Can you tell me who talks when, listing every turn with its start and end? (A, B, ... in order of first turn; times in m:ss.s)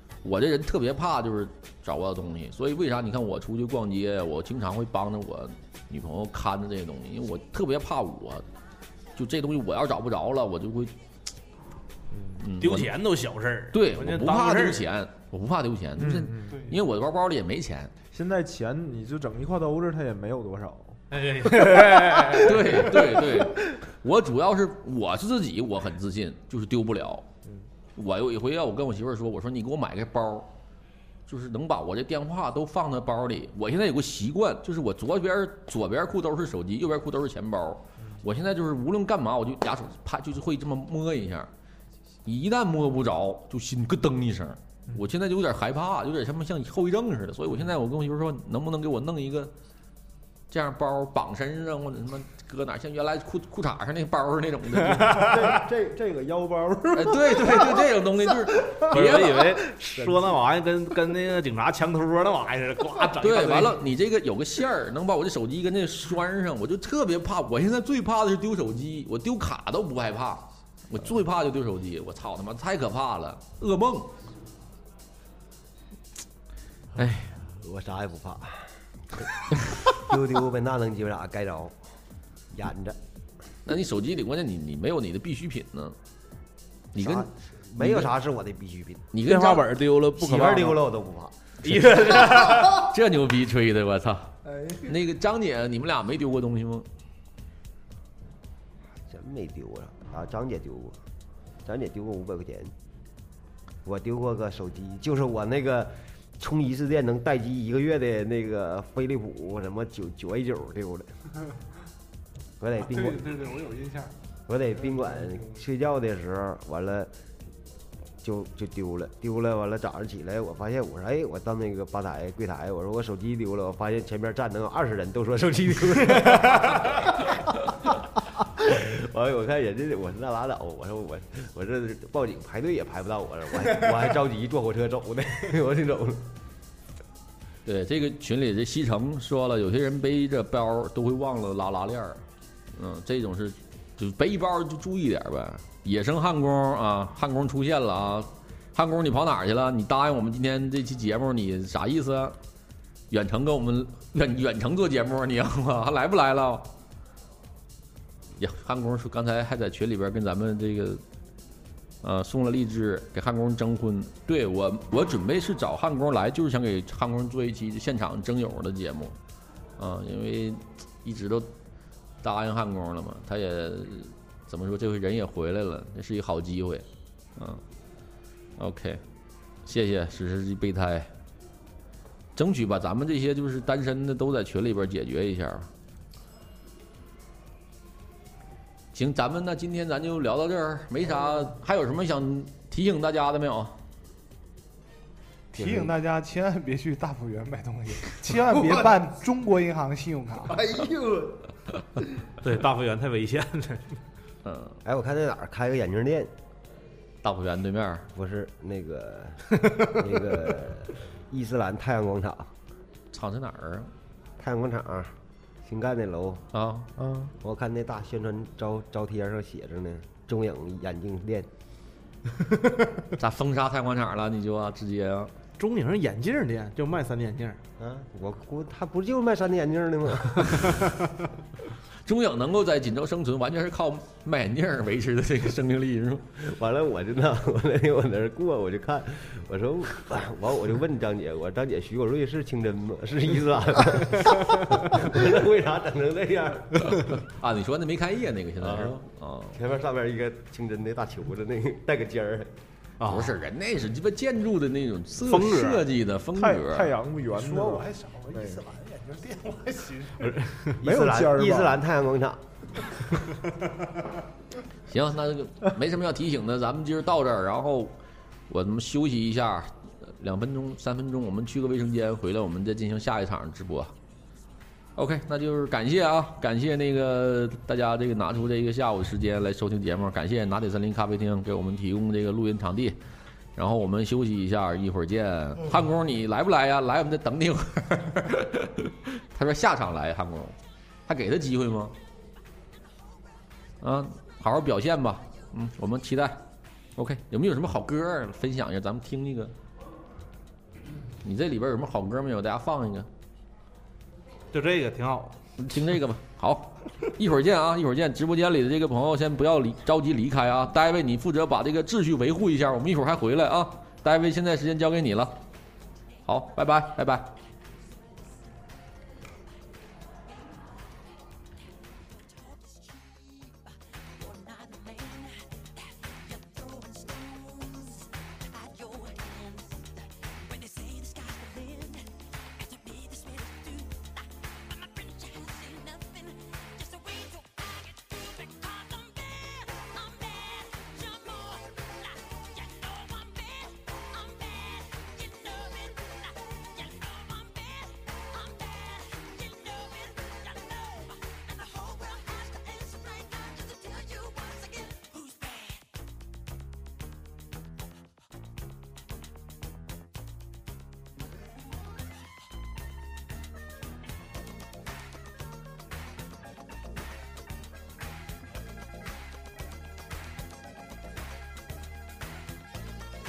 0:00.2-0:08.4 A
0:09.2-0:10.9 A
0:12.4-0:12.9 A
0:12.6-0:14.9 B
0:13.7-0:17.9 A
0:16.0-0:16.6 C
0:18.1-0:23.6 C
0:21.1-0:23.0 B
0:22.3-0:27.3 A
0:28.0-0:30.5 A
0:31.3-0:41.5 A
0:42.3-0:49.5 A
0:50.5-0:55.3 A
0:54.8-0:55.6 B
0:55.1-1:00.4 C
0:57.0-0:59.5 A
0:58.9-1:03.8 B
1:03.2-1:14.1 A
1:17.0-1:17.3 A
1:17.4-1:21.9 D
1:22.5-1:23.0 D
1:23.6-1:26.0 A
1:26.9-1:28.1 A
1:27.0-1:29.1 D
1:29.1-1:29.6 A
1:29.2-1:30.8 B
1:30.2-1:31.3 D
1:31.6-1:32.9 B
1:31.7-1:36.9 A
1:39.1-1:41.0 D
1:41.6-1:42.7 D
1:43.8-1:51.1 D
1:52.6-1:53.4 D
1:52.9-1:54.2 E
1:54.5-1:57.1 D
1:58.2-2:16.2 D
2:17.7-2:22.2 A
2:22.8-2:32.4 A
2:33.1-2:36.7 A
2:38.4-2:41.0 A
2:42.0-2:49.2 A
2:49.8-2:51.5 A
2:52.2-2:57.6 A
2:58.6-2:59.0 A
2:59.7-3:01.1 A
3:02.4-3:05.7 A
3:08.9-3:13.8 A
3:15.5-3:20.6 E
3:18.5-3:18.8 C
3:20.5-3:21.4 C
3:22.4-3:24.0 B
3:24.4-3:24.8 A
3:24.8-3:26.3 D
3:27.2-3:28.1 A
3:28.1-3:32.5 D
3:33.1-3:33.9 A
3:34.4-3:36.4 D
3:36.5-3:36.9 A
3:37.0-3:37.3 C
3:37.4-3:41.5 D
3:43.2-3:45.3 A
3:45.6-3:47.6 B
3:47.8-3:51.1 D
3:52.0-3:56.3 A
3:56.4-4:07.2 D
4:07.2-4:09.6 A
4:09.6-4:12.5 D
4:13.0-4:13.4 B
4:13.0-4:16.9 A
4:15.2-4:15.9 B
4:16.3-4:18.6 C
4:17.3-4:20.5 E
4:20.2-4:20.8 B
4:20.8-4:22.9 D
4:20.8-4:21.8 C
4:24.9-4:28.0 A
4:28.5-4:33.9 A
4:35.0-4:43.0 A
4:43.6-4:52.0 A
4:53.8-4:56.4 A
4:57.0-4:59.5 A
5:01.2-5:03.1 A
5:04.5-5:05.4 B
5:05.6-5:15.4 A
5:16.2-5:17.3 A